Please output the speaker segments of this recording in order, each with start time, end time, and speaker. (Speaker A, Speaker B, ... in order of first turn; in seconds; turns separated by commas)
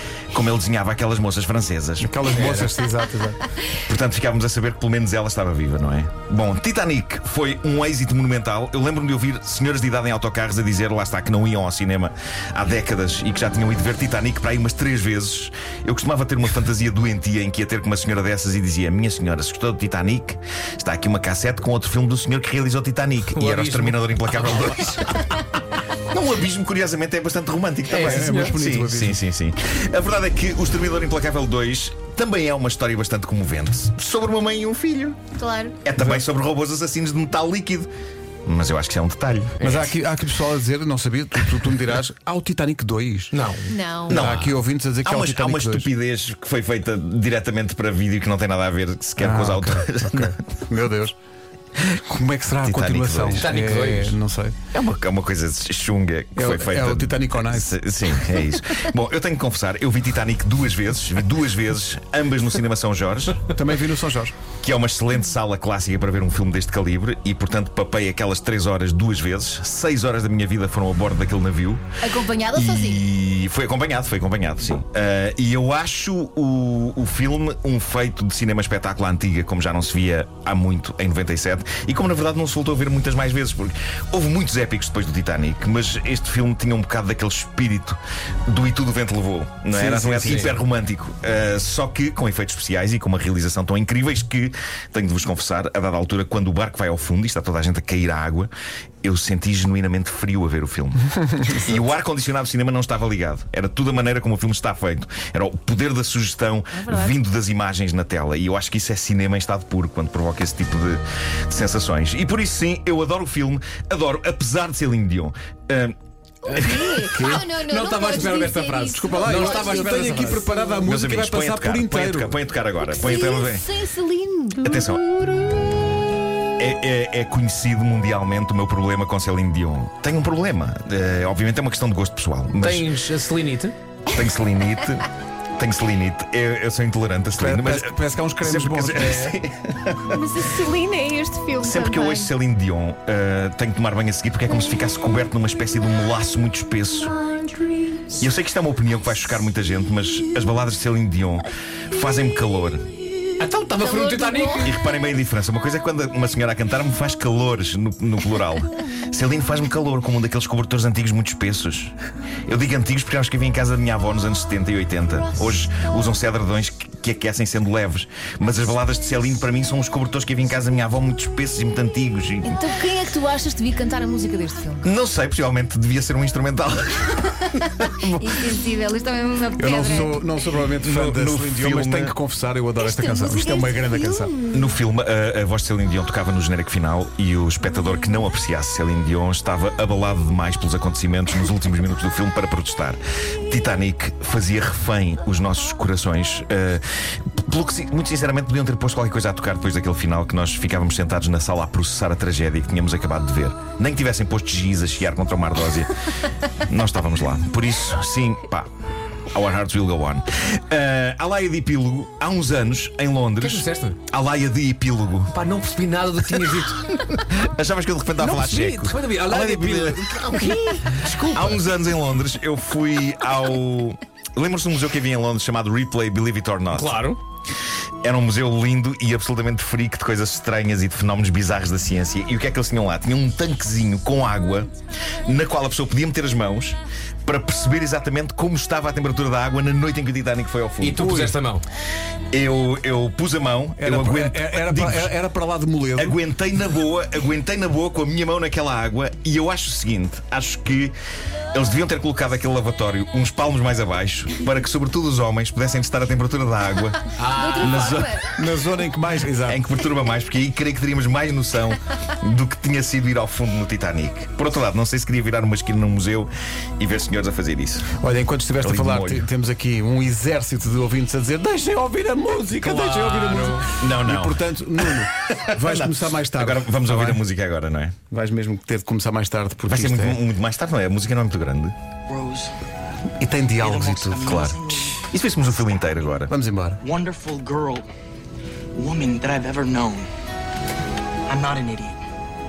Speaker A: 0.3-2.5, Speaker B: 2.0-3.5, Speaker C: 2.3-2.7, Speaker A: 3.7-35.2, Speaker C: 23.3-25.1, Speaker C: 27.9-28.6, Speaker B: 28.0-29.2, Speaker D: 35.4-35.8, Speaker A: 35.8-37.9, Speaker B: 36.0-36.2, Speaker A: 38.5-39.6, Speaker C: 39.6-39.9, Speaker B: 39.6-43.3, Speaker C: 43.3-44.5, Speaker D: 43.7-44.2, Speaker A: 44.1-50.3, Speaker B: 44.1-45.9, Speaker B: 49.2-51.1, Speaker B: 51.8-54.5, Speaker A: 52.6-53.5, Speaker C: 53.3-54.2, Speaker A: 54.7-63.5, Speaker B: 56.4-57.8, Speaker B: 63.5-64.3, Speaker A: 64.6-71.8, Speaker D: 72.0-73.0, Speaker A: 72.5-98.5, Speaker B: 89.7-90.5, Speaker C: 90.2-90.5, Speaker A: 99.0-116.0, Speaker D: 106.8-107.1, Speaker D: 116.5-120.8, Speaker A: 116.5-117.0, Speaker C: 117.1-120.5, Speaker B: 117.1-117.4, Speaker B: 118.9-122.3, Speaker A: 120.8-123.7, Speaker D: 122.8-125.9, Speaker A: 124.6-125.0, Speaker A: 126.6-132.9, Speaker C: 132.5-133.7, Speaker A: 134.1-140.4, Speaker B: 137.3-139.4, Speaker D: 140.0-142.3, Speaker A: 141.6-147.2, Speaker D: 147.2-148.1, Speaker A: 148.1-152.8, Speaker C: 153.4-154.7, Speaker D: 153.8-154.7, Speaker A: 154.6-161.9, Speaker A: 162.5-172.6, Speaker D: 172.4-174.9, Speaker A: 174.8-178.3, Speaker D: 178.2-180.2, Speaker B: 179.6-184.3, Speaker A: 180.7-182.1, Speaker D: 182.8-184.6, Speaker A: 184.5-206.1, Speaker A: 206.7-208.7, Speaker A: 209.3-215.3, Speaker C: 213.4-214.0, Speaker C: 215.3-217.0, Speaker A: 216.9-220.6, Speaker C: 218.2-221.6, Speaker A: 221.3-227.1, Speaker C: 226.7-227.2, Speaker A: 228.0-234.7, Speaker A: 235.2-241.0, Speaker C: 240.8-241.6, Speaker B: 241.0-241.3, Speaker A: 242.3-245.1, Speaker B: 243.8-246.2, Speaker A: 246.0-250.9, Speaker A: 251.5-258.2, Speaker C: 257.2-258.0, Speaker D: 257.3-258.3, Speaker B: 258.3-259.6, Speaker A: 259.4-267.9, Speaker B: 268.0-277.2, Speaker A: 268.6-269.3, Speaker C: 272.6-273.7, Speaker A: 273.8-277.9, Speaker B: 278.1-280.2, Speaker A: 279.6-281.7, Speaker E: 282.1-282.5, Speaker B: 283.2-284.1, Speaker E: 283.6-285.0, Speaker A: 283.9-286.3, Speaker B: 286.3-286.8, Speaker E: 286.8-287.9, Speaker E: 288.7-290.1, Speaker E: 291.3-292.0